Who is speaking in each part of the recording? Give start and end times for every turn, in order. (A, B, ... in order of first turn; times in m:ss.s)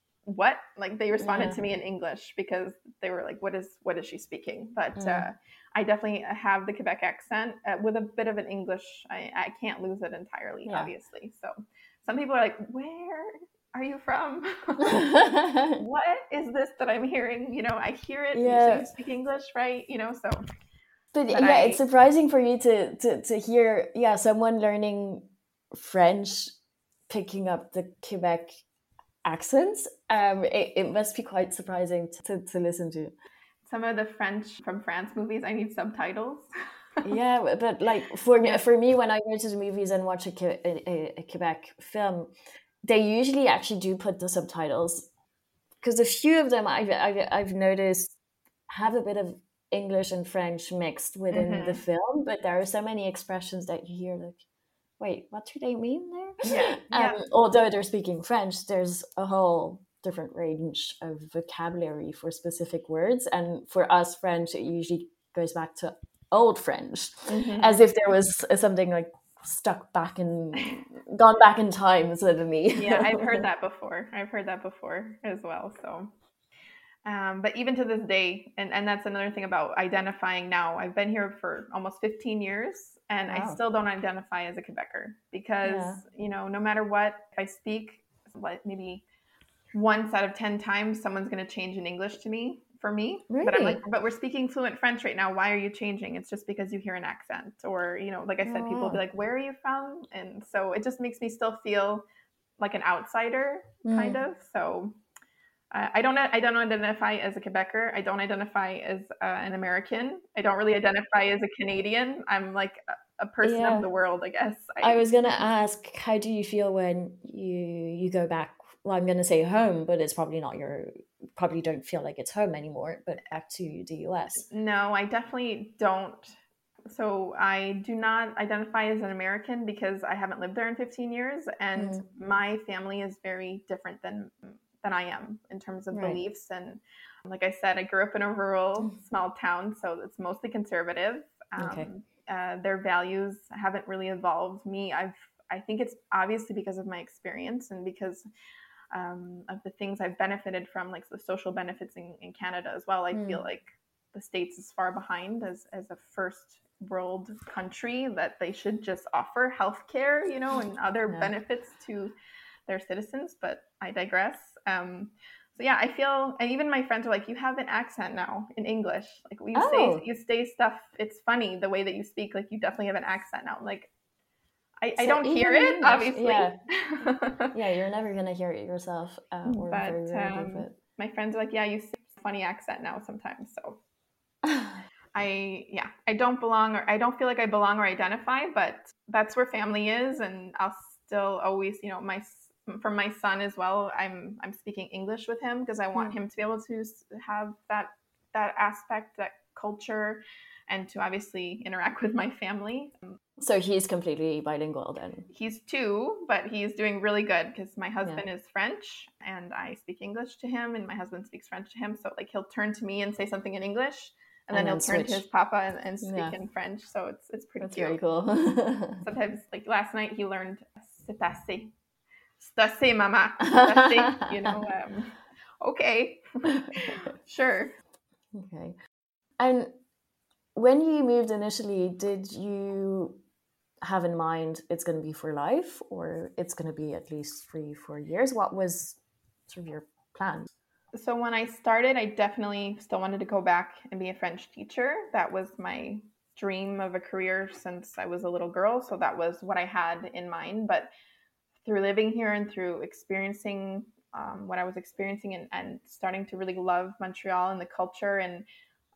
0:00.3-0:15.0 A
0:01.2-0:01.6 B
0:05.0-0:05.2 B
0:14.8-0:15.8 B
0:15.7-0:20.4 A
0:18.3-0:18.9 B
0:21.1-0:26.5 B
0:21.3-0:21.8 A
0:27.1-0:28.6 B
0:29.2-0:33.1 B
0:33.6-0:36.4 A
0:37.0-0:42.3 B
0:42.8-0:45.1 B
0:45.8-0:48.2 B
0:48.7-0:54.4 B
0:51.3-0:51.8 A
0:55.0-1:13.4 B
0:56.4-0:57.2 A
1:07.3-1:07.8 A
1:12.8-1:16.1 A
1:17.0-1:29.0 A
1:23.3-1:23.6 B
1:25.6-1:26.0 B
1:29.7-1:42.0 A
1:33.3-1:33.8 B
1:38.4-1:39.0 B
1:42.6-1:44.9 A
1:43.8-1:44.2 B
1:45.7-1:55.0 A
1:53.4-1:53.9 B
1:54.8-2:04.4 B
2:04.5-2:06.4 A
2:06.9-2:28.2 A
2:11.8-2:12.0 B
2:15.9-2:16.2 B
2:21.6-2:21.9 B
2:28.9-2:42.1 A
2:33.1-2:33.4 B
2:42.7-2:53.9 A
2:49.5-2:50.0 B
2:54.8-2:57.5 A
2:55.0-2:56.6 B
2:57.5-3:00.7 B
2:59.4-3:03.8 A
3:04.4-3:04.8 B
3:05.1-3:23.1 A
3:23.4-3:25.3 B
3:25.3-3:38.0 A
3:34.5-3:35.2 B
3:36.0-3:36.4 B
3:37.6-3:39.0 B
3:39.0-3:41.7 A
3:42.4-3:47.7 A
3:43.5-3:44.2 B
3:46.6-3:46.9 B
3:48.3-3:48.8 B
3:49.4-3:49.7 B
3:50.5-3:53.2 B
3:53.8-4:00.5 B
4:00.9-4:10.9 A
4:11.6-4:18.4 A